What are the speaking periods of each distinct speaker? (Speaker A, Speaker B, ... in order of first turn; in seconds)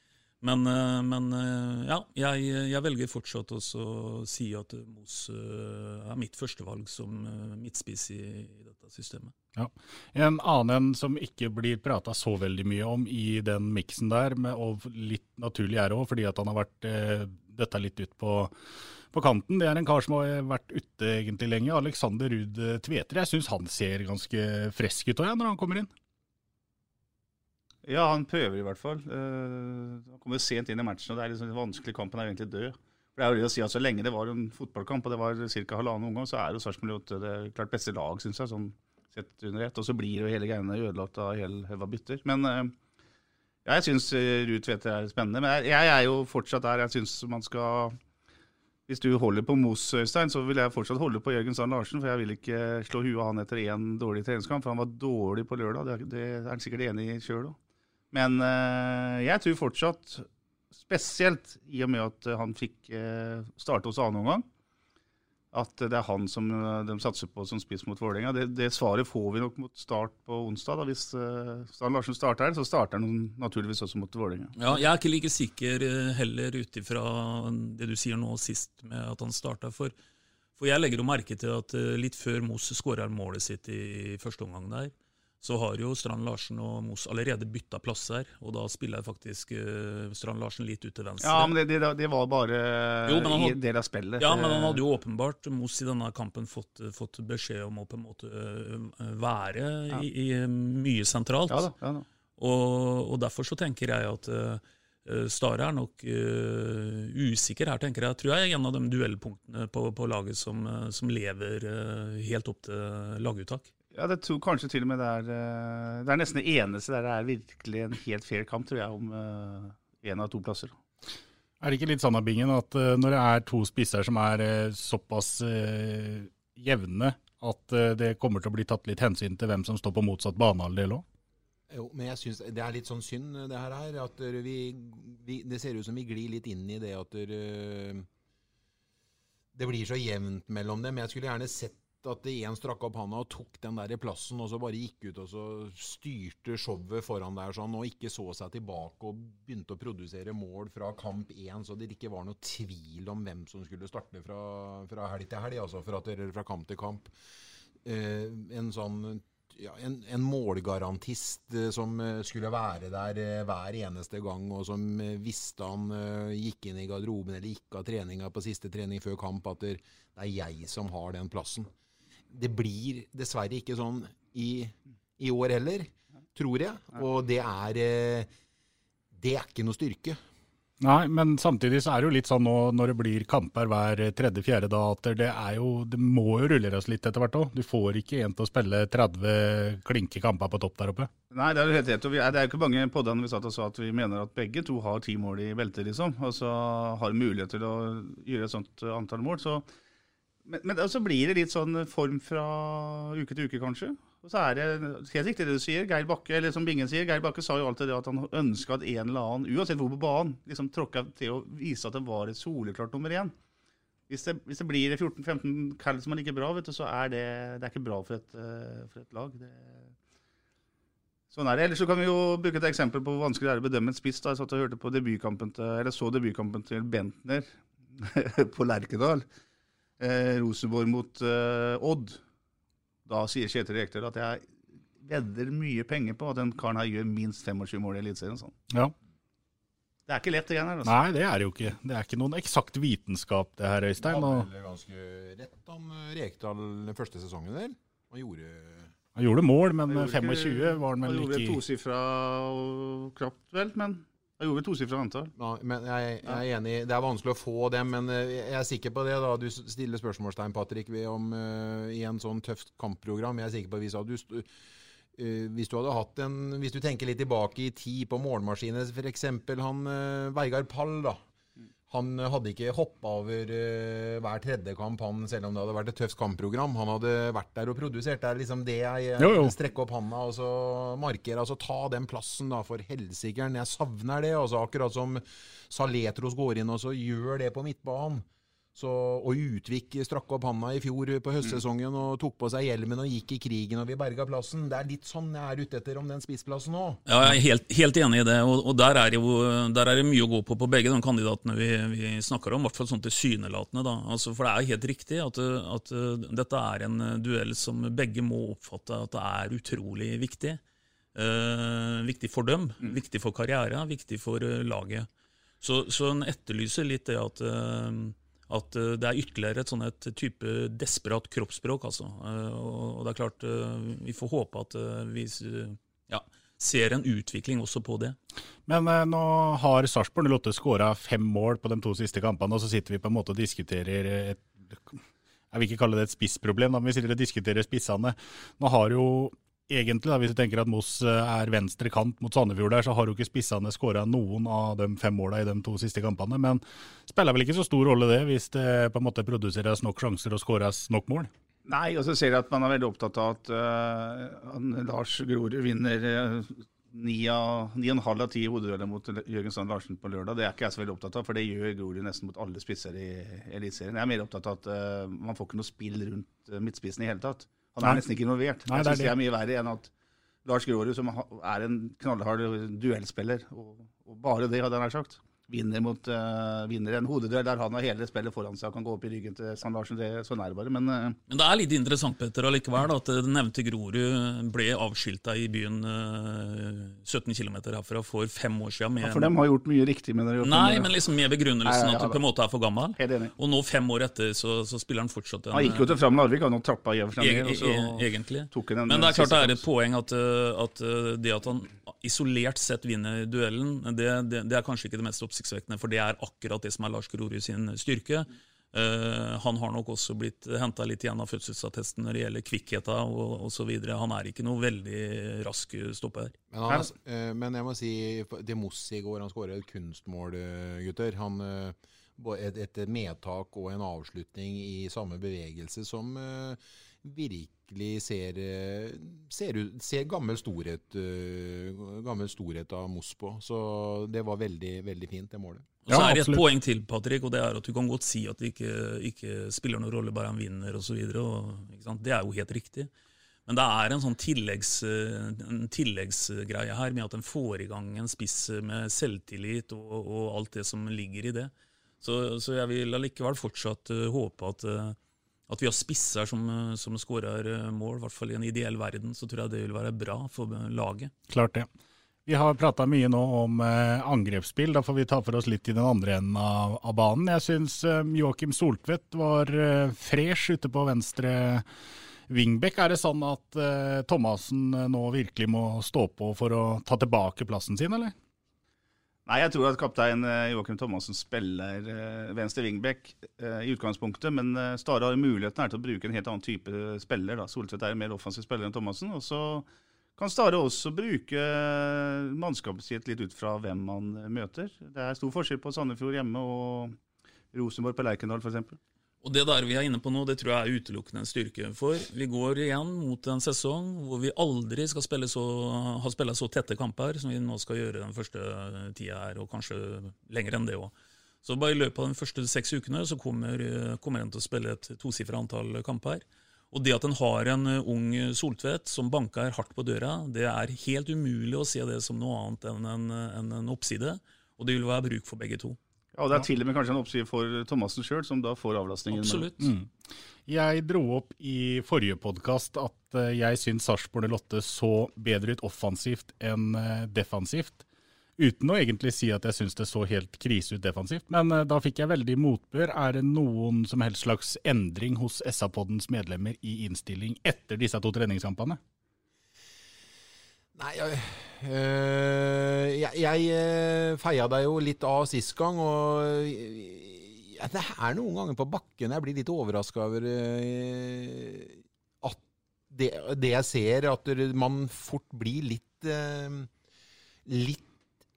Speaker A: 0.4-9.3, 74.6-79.9, 80.6-91.5, 93.1-93.6, 94.2-101.7, 102.4-113.7, 297.1-310.6, 311.1-315.1, 315.6-328.2, 381.3-389.3, 390.4-396.0, 397.2-416.4, 435.9-442.9, 443.5-455.0, 455.5-461.1, 499.2-510.9, 511.4-525.8, 529.1-529.6
Speaker B: 9.6-18.5, 19.1-25.9, 121.6-131.0, 180.8-191.1, 240.8-244.5, 249.2-251.6, 279.2-279.5, 328.7-335.0, 335.5-351.3, 368.7-369.1, 435.9-436.4, 461.3-461.7, 462.3-471.6, 472.3-478.1, 529.6-529.9, 530.5-537.8, 538.4-548.8
Speaker C: 27.9-42.7, 43.6-48.0, 48.9-57.6, 58.1-60.3, 60.8-64.5, 65.5-74.6, 91.2-94.8, 101.5-102.1, 113.9-120.7, 191.3-199.7, 200.5-213.3, 214.1-219.9, 221.3-229.2, 230.0-232.2, 233.1-234.5, 235.0-238.5, 240.1-240.9, 249.9-255.3, 351.7-369.9, 370.4-381.2, 389.0-390.9, 391.6-392.2, 393.0-393.3, 395.5-399.6, 479.3-497.0, 497.5-498.8, 526.1-529.6
Speaker D: 131.7-138.1, 139.5-157.1, 157.8-171.7, 172.3-178.3, 179.2-180.2, 244.0-248.9, 255.4-264.5, 265.1-271.2, 271.9-297.0, 416.5-435.7, 550.8-566.7, 567.5-567.9